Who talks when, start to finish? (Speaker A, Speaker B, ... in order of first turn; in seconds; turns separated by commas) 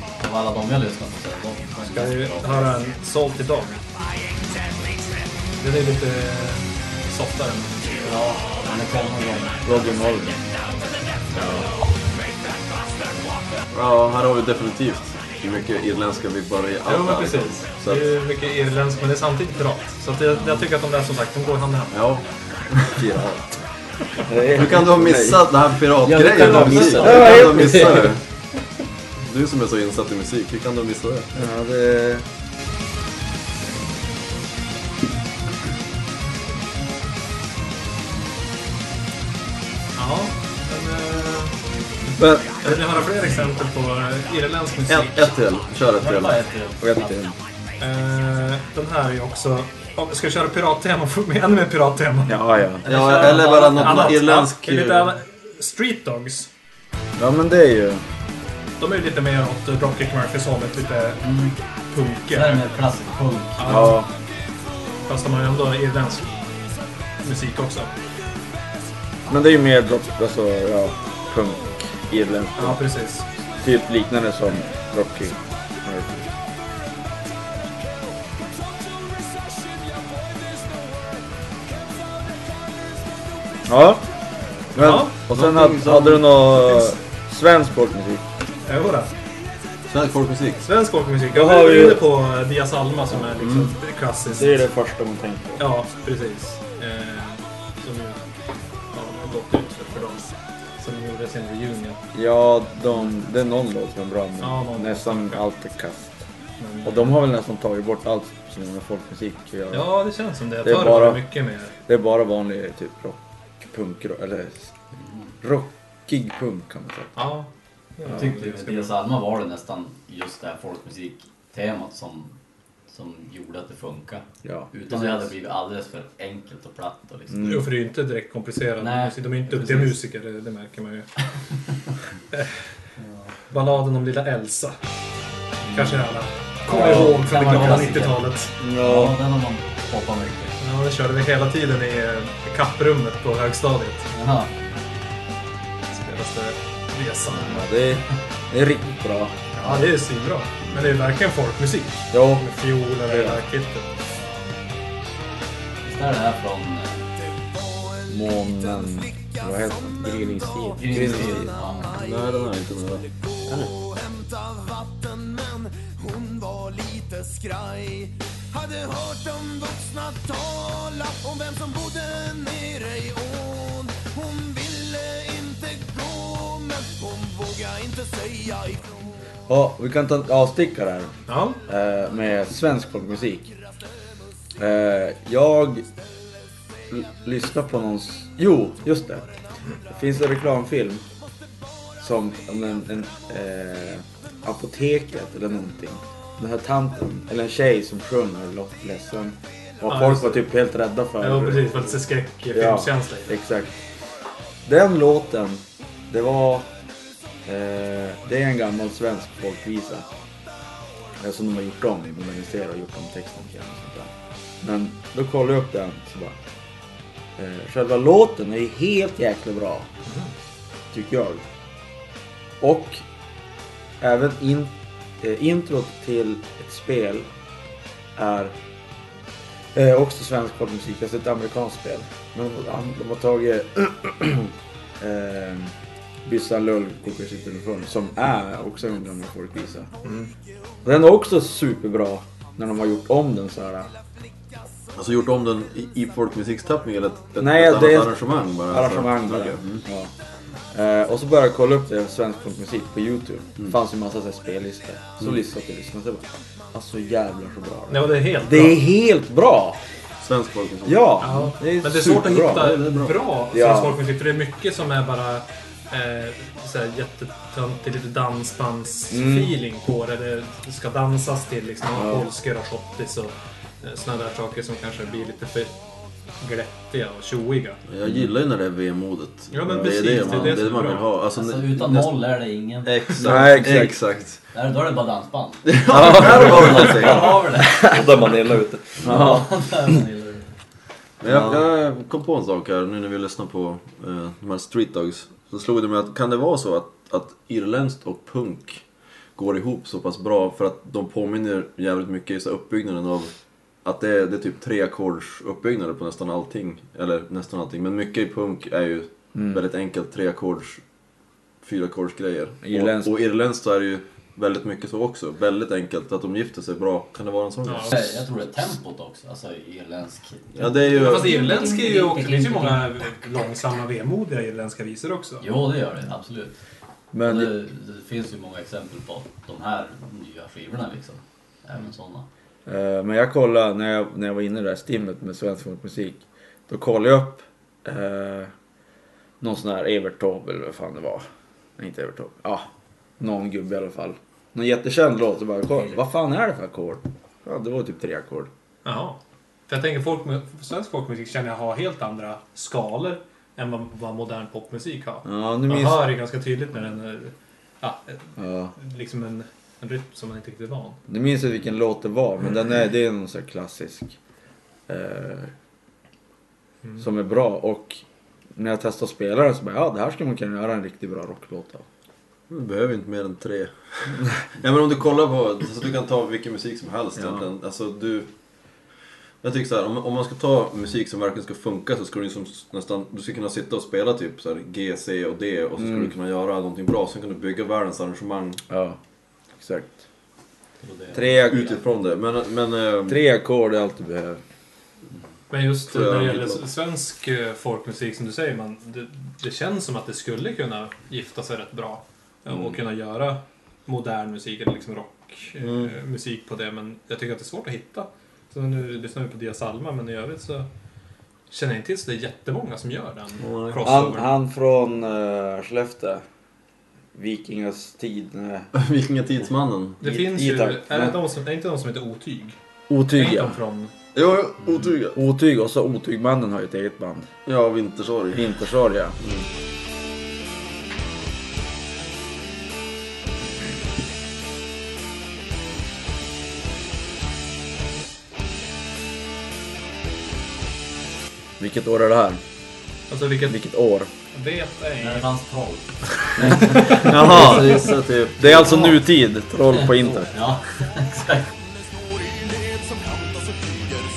Speaker A: 0.2-2.8, Speaker B: 1.9-3.8, Speaker C: 4.0-5.3, Speaker B: 5.6-8.2, Speaker A: 8.0-9.6, Speaker D: 9.6-10.4, Speaker C: 10.3-13.4, Speaker D: 11.4-11.6, Speaker E: 13.7-18.1, Speaker B: 16.9-22.0, Speaker A: 20.3-20.7, Speaker E: 21.9-23.5, Speaker D: 24.3-25.5, Speaker E: 24.5-28.2, Speaker A: 26.0-28.1, Speaker D: 26.1-28.2, Speaker B: 26.4-27.4, Speaker E: 29.2-31.3, Speaker D: 31.4-32.2, Speaker B: 40.0-41.5, Speaker D: 42.2-42.7, Speaker B: 42.6-45.3, Speaker E: 44.9-46.4, Speaker A: 46.0-47.2, Speaker D: 46.8-47.4, Speaker B: 47.8-52.4, Speaker D: 52.3-52.9, Speaker A: 52.8-54.2, Speaker E: 52.9-55.1, Speaker B: 53.1-56.5, Speaker D: 57.2-58.0, Speaker B: 58.8-61.3, Speaker A: 61.2-61.5, Speaker B: 61.9-62.8, Speaker A: 62.3-63.7, Speaker B: 63.6-64.0, Speaker D: 63.6-64.1, Speaker B: 65.1-66.4, Speaker B: 67.2-67.9, Speaker D: 69.3-72.8, Speaker B: 72.6-73.3, Speaker D: 73.6-76.3, Speaker D: 83.7-84.1, Speaker D: 84.7-88.2, Speaker B: 84.8-85.2, Speaker E: 85.3-86.3, Speaker B: 88.7-89.1, Speaker E: 89.9-90.7, Speaker B: 90.6-94.6, Speaker D: 91.3-92.1, Speaker D: 93.1-93.7, Speaker D: 94.3-95.7, Speaker B: 95.6-98.2, Speaker B: 98.9-102.0, Speaker D: 102.1-106.2, Speaker B: 104.4-105.4, Speaker B: 106.6-107.2, Speaker D: 106.8-110.0, Speaker B: 109.7-111.7, Speaker D: 110.6-111.3, Speaker D: 111.9-114.7, Speaker A: 115.0-115.3, Speaker D: 115.4-117.3, Speaker B: 117.2-119.0, Speaker A: 118.1-122.3, Speaker A: 122.9-127.6, Speaker D: 124.4-124.7, Speaker D: 127.3-127.7, Speaker B: 127.4-131.1, Speaker A: 128.8-130.0, Speaker A: 133.0-133.3, Speaker B: 133.5-134.8, Speaker A: 135.6-136.1, Speaker B: 135.7-138.5, Speaker D: 136.7-137.7, Speaker A: 136.7-140.6, Speaker D: 138.6-139.2, Speaker B: 140.6-144.1, Speaker A: 144.1-144.5, Speaker B: 145.9-147.7, Speaker D: 147.3-149.4, Speaker B: 149.6-153.9, Speaker A: 149.6-149.9, Speaker D: 152.1-152.5, Speaker D: 153.0-153.4, Speaker A: 155.8-157.0, Speaker D: 158.1-161.6, Speaker A: 160.8-162.0, Speaker E: 161.9-163.1, Speaker D: 179.5-181.1, Speaker B: 181.3-181.6, Speaker D: 181.7-183.5, Speaker D: 184.6-185.9, Speaker D: 186.9-189.3, Speaker D: 189.9-191.1, Speaker D: 192.0-202.0, Speaker B: 199.9-200.5, Speaker B: 201.2-203.4, Speaker D: 202.5-203.8, Speaker D: 204.7-206.7, Speaker D: 207.5-210.1, Speaker D: 211.2-214.1, Speaker D: 214.6-216.4, Speaker D: 217.4-219.9, Speaker D: 220.9-221.4, Speaker D: 222.6-223.0, Speaker D: 224.0-227.3, Speaker D: 228.2-228.6, Speaker D: 229.7-235.7, Speaker D: 236.2-239.9, Speaker D: 240.8-243.9, Speaker E: 244.9-249.8, Speaker D: 247.4-250.1, Speaker D: 250.7-259.8, Speaker B: 257.9-258.8, Speaker E: 260.2-261.2, Speaker D: 260.9-262.8, Speaker B: 261.2-275.7, Speaker E: 262.5-263.2, Speaker D: 263.5-264.0, Speaker D: 269.1-269.6, Speaker D: 271.9-272.3, Speaker B: 276.4-277.8, Speaker E: 277.9-282.2, Speaker B: 279.5-281.1, Speaker A: 281.3-283.7, Speaker E: 282.8-284.4, Speaker D: 283.2-284.0, Speaker A: 284.5-288.0, Speaker E: 285.7-287.4, Speaker D: 285.9-286.6, Speaker F: 286.5-289.0, Speaker A: 289.0-290.5, Speaker E: 289.0-289.3, Speaker D: 289.0-289.4, Speaker E: 291.2-298.8, Speaker D: 291.3-291.6, Speaker E: 299.4-303.3, Speaker E: 303.8-310.8, Speaker D: 309.4-309.6, Speaker E: 311.6-318.2, Speaker D: 312.6-313.1, Speaker B: 317.7-318.0, Speaker A: 317.9-320.6, Speaker E: 320.6-321.7, Speaker B: 320.9-325.4, Speaker A: 325.4-326.6, Speaker D: 327.1-327.6, Speaker A: 327.2-332.3, Speaker D: 332.7-338.5, Speaker D: 339.4-341.3, Speaker D: 341.8-342.7, Speaker D: 343.2-348.5, Speaker B: 348.9-358.2, Speaker D: 355.2-356.1, Speaker D: 358.4-358.7, Speaker B: 358.8-361.0, Speaker D: 361.1-364.2, Speaker D: 364.9-365.5, Speaker D: 367.0-368.0, Speaker D: 368.6-371.9, Speaker E: 372.5-378.3, Speaker D: 377.2-377.4, Speaker E: 379.4-388.6, Speaker D: 385.8-386.1, Speaker D: 388.7-389.0, Speaker D: 389.6-390.0, Speaker A: 390.8-391.8, Speaker D: 391.1-391.7, Speaker E: 391.3-393.2, Speaker D: 393.1-394.4, Speaker B: 395.5-410.7, Speaker E: 395.9-396.6, Speaker E: 405.6-405.9, Speaker B: 411.5-414.3, Speaker E: 413.4-413.9, Speaker D: 413.8-416.2, Speaker D: 417.1-418.7, Speaker E: 418.7-420.0, Speaker B: 420.0-422.6, Speaker D: 420.0-421.2, Speaker D: 422.9-423.6, Speaker B: 423.1-423.9, Speaker E: 424.1-425.2, Speaker D: 425.1-427.3, Speaker E: 427.5-428.5, Speaker D: 428.3-429.2, Speaker D: 441.6-442.4, Speaker B: 443.1-443.6, Speaker D: 443.4-444.1, Speaker B: 444.3-445.3, Speaker A: 445.0-447.1, Speaker D: 446.4-450.3, Speaker E: 446.5-449.0, Speaker B: 446.6-447.0, Speaker A: 449.7-451.5